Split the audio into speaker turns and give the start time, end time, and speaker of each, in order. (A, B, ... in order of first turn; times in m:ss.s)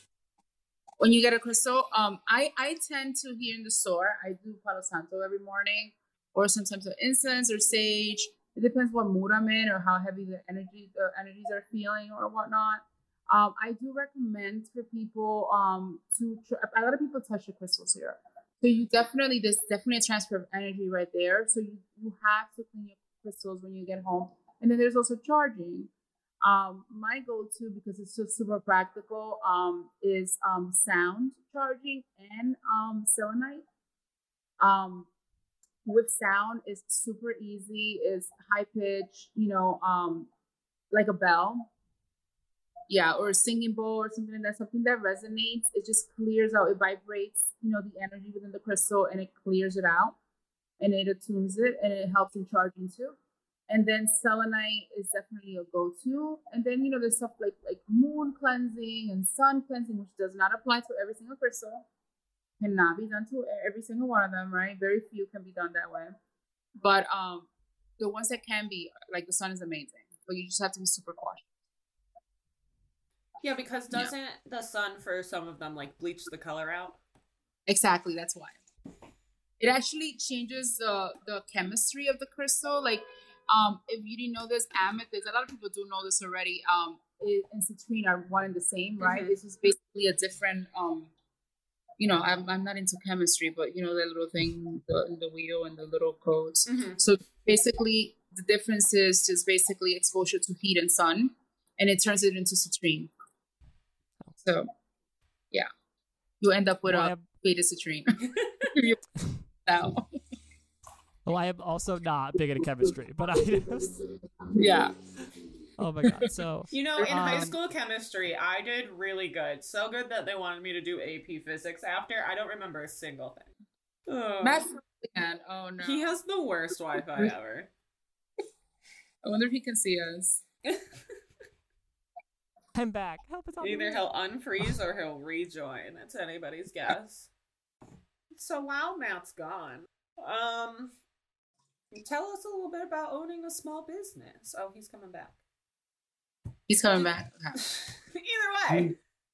0:01.0-0:25.9 A
0:26.4-0:33.6 A
0:34.6-0:35.1 A
0:35.8-0:40.3 A
0:40.9-0:41.7 A
0:42.9-0:50.2 A
0:50.8-0:53.2 A
0:53.7-1:01.9 A
1:02.6-1:06.2 A
1:06.8-1:11.4 A
1:13.4-1:17.0 B
1:17.7-1:18.6 A
1:19.6-1:31.1 A
1:29.0-1:29.3 B
1:32.0-1:43.1 A
1:36.7-1:37.0 B
1:44.4-1:44.7 A
1:46.4-1:48.2 A
1:46.9-1:47.3 C
1:48.7-1:49.0 A
1:49.6-1:50.1 A
1:51.3-1:53.9 C
1:54.5-1:54.9 A
1:55.8-1:57.6 C
1:56.7-2:03.5 B
2:04.1-2:04.6 B
2:04.4-2:06.1 A
2:05.8-2:07.7 B
2:09.2-2:10.4 A
2:12.8-2:14.0 C
2:13.6-2:17.3 B
2:18.3-2:20.9 B
2:21.9-2:25.4 B
2:26.7-2:27.6 A
2:27.6-2:29.0 B